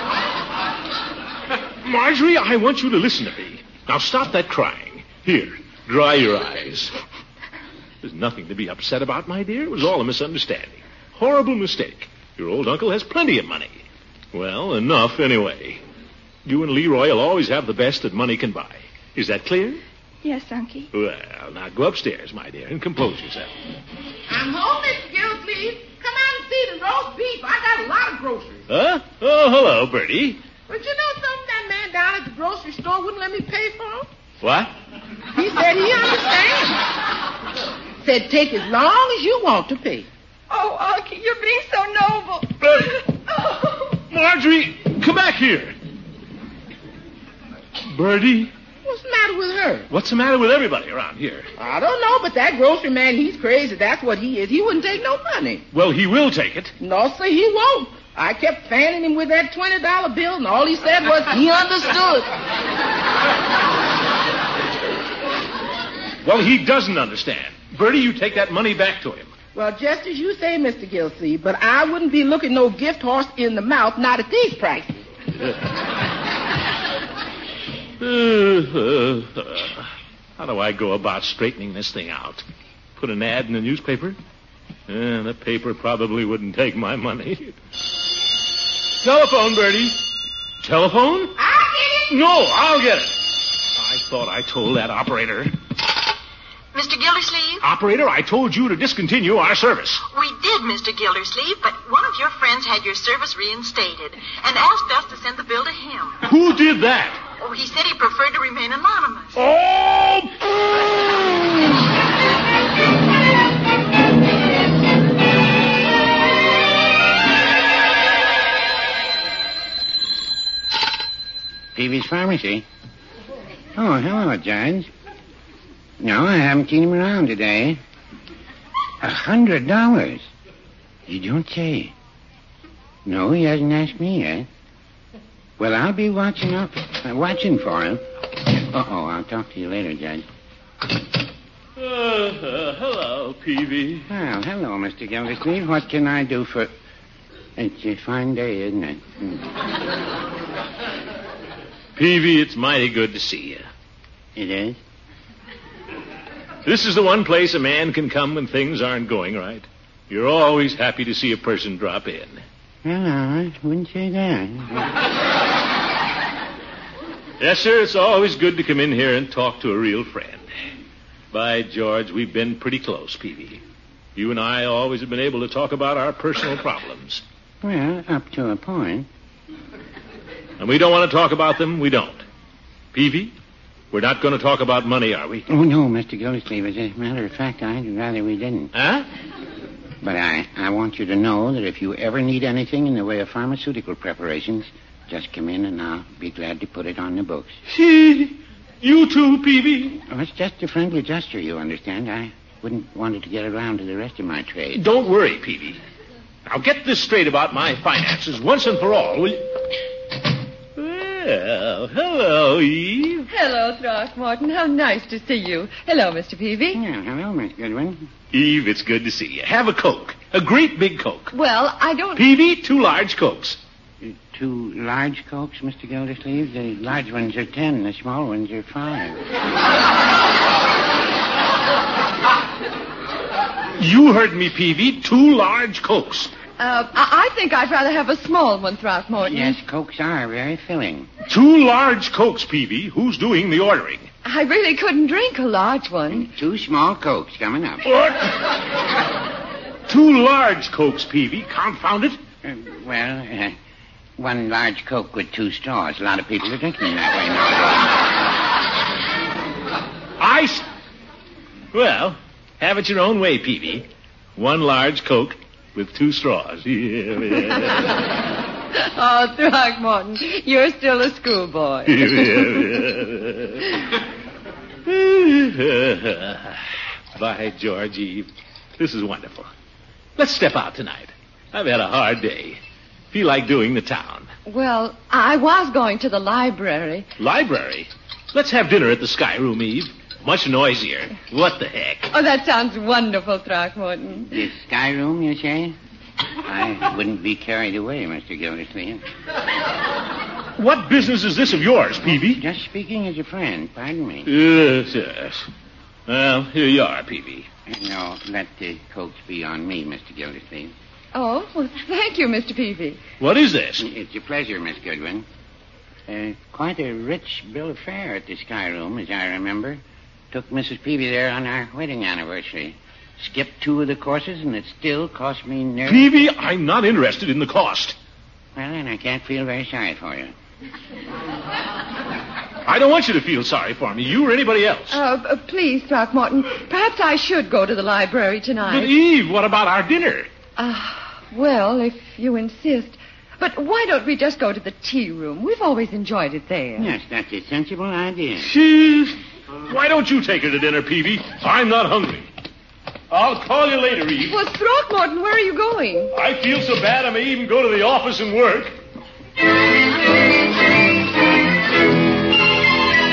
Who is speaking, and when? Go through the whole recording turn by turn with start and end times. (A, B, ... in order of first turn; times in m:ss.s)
0:01.8-0:06.9 A
0:08.0-0:13.8 A
0:14.3-0:15.8 A
0:16.4-0:19.8 A
0:20.2-0:20.9 B
0:20.9-0:23.5 A
0:24.3-0:28.6 C
0:28.7-0:30.4 A
0:30.7-0:34.1 C
0:34.4-0:34.7 A
0:35.3-0:36.8 C
0:38.0-0:40.1 C
0:40.5-0:43.9 B
0:42.6-0:43.0 A
0:44.1-0:45.7 A
0:47.9-0:48.5 A
0:48.8-0:49.9 C
0:49.9-0:51.5 A
0:51.6-0:55.6 C
0:55.7-0:56.7 A
0:56.8-1:02.3 C
1:06.2-1:09.3 A
1:09.5-1:15.0 C
1:18.0-1:22.4 A
1:23.0-1:24.2 A
1:24.9-1:27.6 A
1:29.0-1:30.0 A
1:30.6-1:31.4 A
1:31.4-1:32.1 C
1:32.1-1:35.5 A
1:36.7-1:37.6 D
1:37.6-1:40.0 A
1:40.1-1:46.2 D
1:46.2-1:47.2 A
1:47.4-1:49.4 D
1:49.4-1:50.5 A
2:01.7-2:02.6 E
2:03.7-2:04.9 E
2:06.0-2:07.8 E
2:09.0-2:10.2 E
2:11.1-2:11.9 E
2:13.0-2:14.5 E
2:15.6-2:20.2 E
2:21.8-2:24.1 A
2:24.1-2:26.7 E
2:27.6-2:29.5 E
2:32.0-2:33.6 A
2:34.4-2:34.8 E
2:36.6-2:42.4 A
2:42.8-2:44.9 E
2:47.4-2:50.4 A
2:51.3-2:53.6 A
2:54.2-2:57.2 A
2:57.6-2:59.1 E
3:00.6-3:02.2 A
3:02.9-3:03.3 A
3:03.9-3:05.5 A
3:05.5-3:08.7 E
3:08.7-3:09.0 A
3:10.0-3:17.6 E
3:17.7-3:20.0 A
3:20.0-3:24.9 E
3:24.7-3:25.8 A
3:26.4-3:29.5 A
3:30.8-3:33.3 A
3:33.3-3:36.8 F
3:36.7-3:38.1 E
3:38.3-3:41.3 A
3:41.3-3:42.2 F
3:42.2-3:43.6 A
3:44.0-3:49.2 E
3:53.8-3:56.3 A
3:56.6-3:59.6 F
3:59.2-4:01.1 E
4:01.2-4:04.1 A
4:04.2-4:06.3 F
4:06.1-4:07.9 E
4:07.9-4:08.4 A
4:09.9-4:12.2 A
4:12.4-4:13.6 E
4:14.2-4:17.9 E
4:20.2-4:20.6 A
4:21.7-4:23.9 A
4:24.4-4:27.7 A
4:28.8-4:32.8 F
4:31.9-4:33.6 A
4:34.9-4:36.6 A
4:37.1-4:39.5 A
4:40.2-4:42.6 A
4:43.1-4:44.3 A
4:44.4-4:47.1 F
4:47.2-4:52.1 A
4:52.1-4:54.3 F
4:54.3-4:55.8 E
4:56.4-4:59.0 E
5:00.6-5:02.4 A
5:02.1-5:04.3 E
5:04.2-5:05.5 A
5:06.1-5:07.5 A
5:07.7-5:10.7 E
5:11.1-5:13.0 F
5:13.2-5:13.9 A
5:13.8-5:15.2 E
5:16.1-5:26.1 E
5:25.9-5:28.0 A
5:28.6-5:30.3 E
5:32.6-5:35.0 A
5:34.9-5:38.9 F
5:38.7-5:40.3 A
5:40.6-5:46.9 F
5:46.8-5:48.5 E
5:48.4-5:49.2 A
5:49.7-5:52.3 A
5:53.1-5:54.4 A
5:54.2-5:56.1 F
5:56.1-5:58.7 A